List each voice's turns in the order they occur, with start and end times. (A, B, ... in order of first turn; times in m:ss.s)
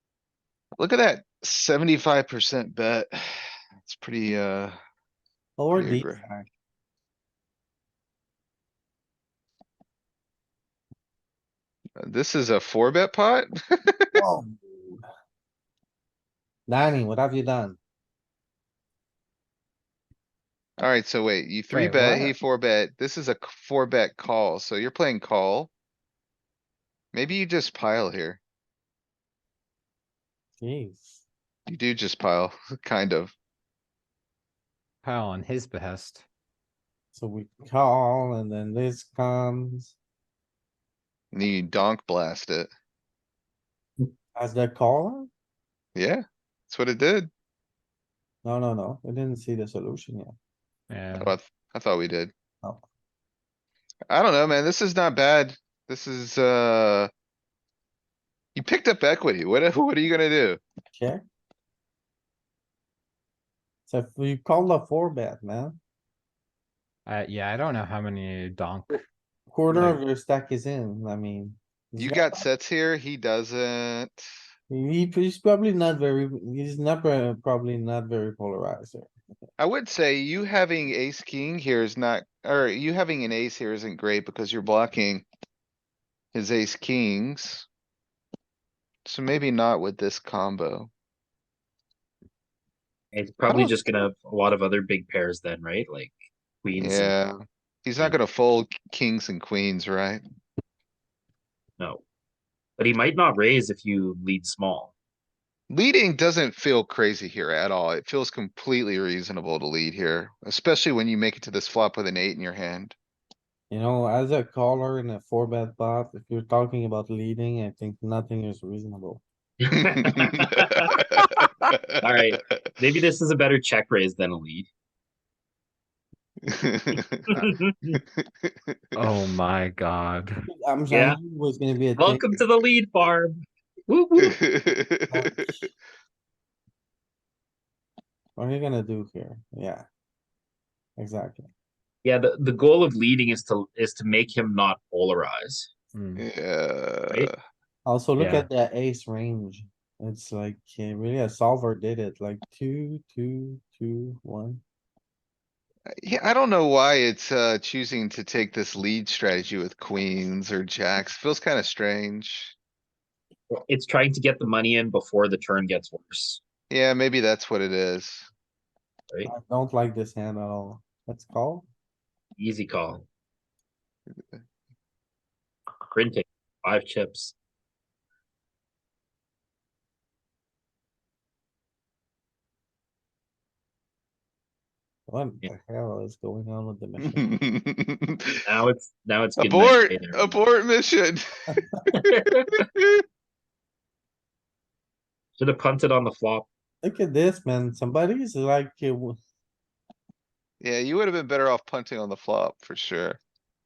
0:00.8-0:04.8 A
0:05.6-0:06.5 B
0:05.7-0:06.2 A
0:12.0-0:14.2 A
0:14.1-0:15.0 B
0:16.7-0:17.8 B
0:20.8-0:25.7 A
0:21.7-0:22.3 C
0:27.1-0:28.4 A
0:30.6-0:31.2 B
0:31.7-0:33.3 A
0:35.0-0:36.2 C
0:37.1-0:40.0 B
0:41.3-0:42.7 A
0:44.3-0:45.3 B
0:45.9-0:47.3 A
0:48.4-0:50.3 B
0:50.9-0:51.3 C
0:51.1-0:52.3 A
0:54.1-0:57.1 A
0:58.5-1:00.6 A
1:00.9-1:01.2 B
1:03.9-1:05.8 B
1:07.0-1:09.0 C
1:09.5-1:12.4 B
1:09.7-1:10.0 C
1:12.0-1:14.3 A
1:14.7-1:19.1 B
1:19.6-1:25.2 A
1:26.3-1:27.7 A
1:29.0-1:30.9 A
1:33.1-1:37.1 D
1:36.8-1:40.2 A
1:42.8-1:44.9 D
1:45.7-1:52.9 A
1:53.7-1:59.2 B
1:59.6-2:01.4 D
2:01.9-2:02.6 A
2:02.0-2:04.7 D
2:06.5-2:07.3 A
2:07.3-2:08.0 D
2:08.2-2:09.1 A
2:08.9-2:10.3 C
2:10.5-2:12.4 B
2:10.9-2:11.2 D
2:12.0-2:14.4 D
2:14.2-2:15.4 A
2:15.1-2:15.7 B
2:18.4-2:19.8 B
2:21.0-2:21.5 B
2:22.0-2:25.7 D
2:25.9-2:26.2 C
2:26.2-2:27.3 A
2:27.8-2:34.6 B
2:28.2-2:28.5 C
2:36.0-2:42.5 A
2:43.6-2:46.4 D
2:46.7-2:48.3 A
2:49.2-2:51.7 B
2:52.4-2:53.0 D
2:55.9-2:57.3 D
3:05.1-3:07.4 B
3:07.0-3:08.4 A
3:08.4-3:10.4 D
3:09.4-3:11.6 A
3:11.9-3:12.6 D
3:12.7-3:13.0 A
3:15.4-3:16.5 D
3:16.8-3:19.2 B
3:20.6-3:23.2 A